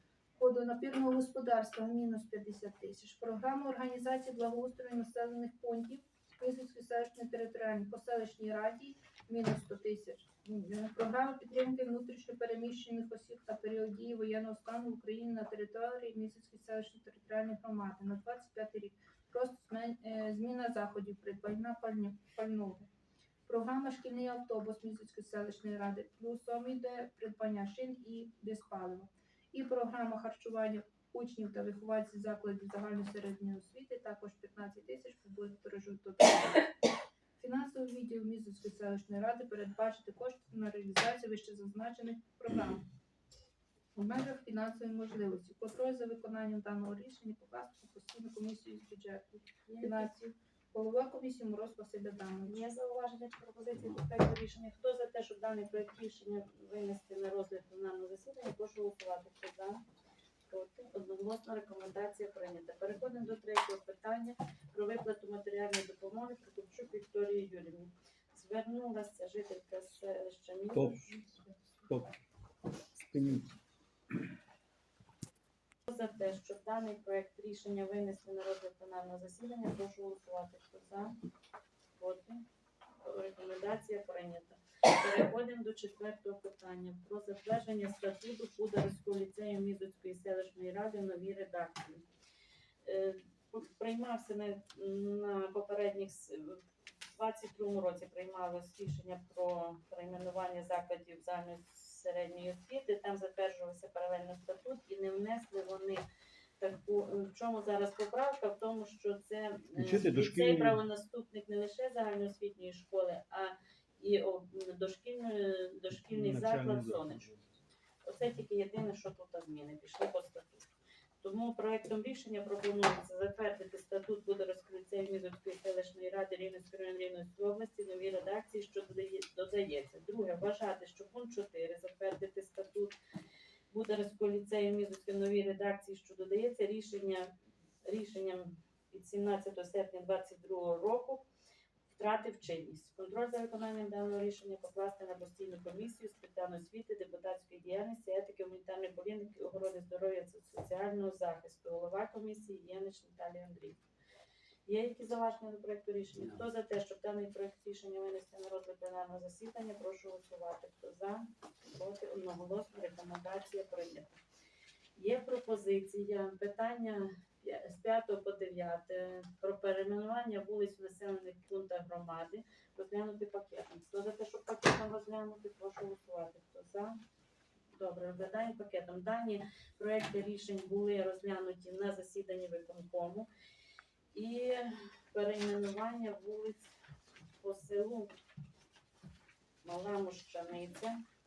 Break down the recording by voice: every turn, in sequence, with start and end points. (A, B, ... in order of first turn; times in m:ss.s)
0:00.4-0:22.9 A
0:23.5-0:36.7 A
0:37.4-0:42.8 A
0:44.0-0:52.6 A
0:49.7-0:50.1 B
0:52.4-0:59.8 B
1:00.5-1:11.1 B
1:10.8-1:11.1 C
1:11.3-1:11.8 A
1:13.0-1:13.6 C
1:15.9-1:21.2 B
1:22.0-1:22.4 B
1:23.0-1:32.0 B
1:32.8-1:36.6 B
1:37.2-1:46.0 B
1:46.6-1:57.3 B
1:49.8-1:50.8 C
1:56.1-1:57.3 C
1:58.0-2:00.7 B
2:01.2-2:13.0 B
2:13.7-2:17.3 B
2:17.8-2:21.2 B
2:22.0-2:33.8 B
2:34.7-2:44.2 B
2:45.0-2:57.0 B
2:57.7-3:03.3 B
3:04.1-3:06.7 B
3:07.4-3:08.1 B
3:09.6-3:11.0 B